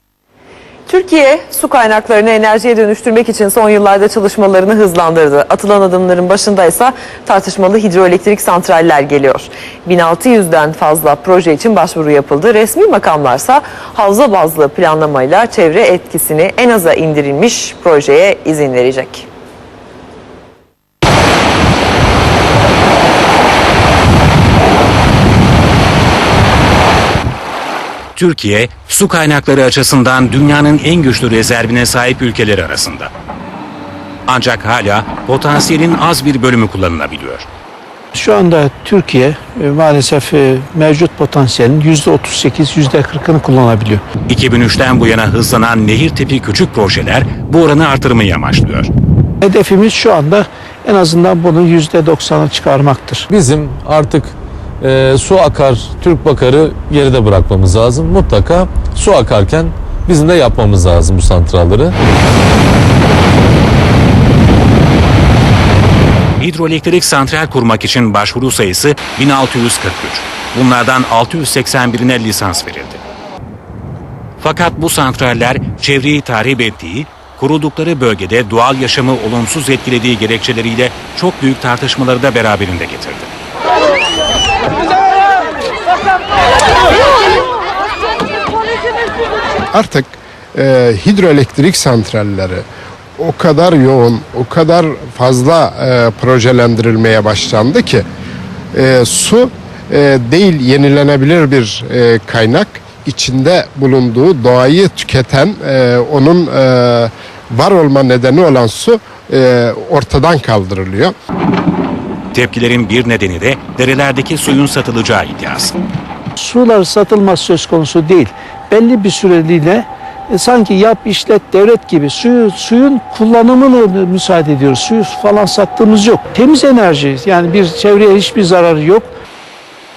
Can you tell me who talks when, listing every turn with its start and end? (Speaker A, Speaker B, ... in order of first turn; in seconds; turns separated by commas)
Speaker A: 0.9-19.2, Speaker B: 28.1-33.1, Speaker B: 34.3-37.5, Speaker C: 38.1-44.0, Speaker B: 44.3-48.9, Speaker C: 49.4-53.3, Speaker D: 53.3-61.9, Speaker B: 66.4-73.0, Speaker B: 74.4-83.3, Speaker E: 89.7-92.6, Speaker E: 93.2-98.0, Speaker E: 98.7-111.1, Speaker B: 112.3-115.7, Speaker C: 116.4-129.1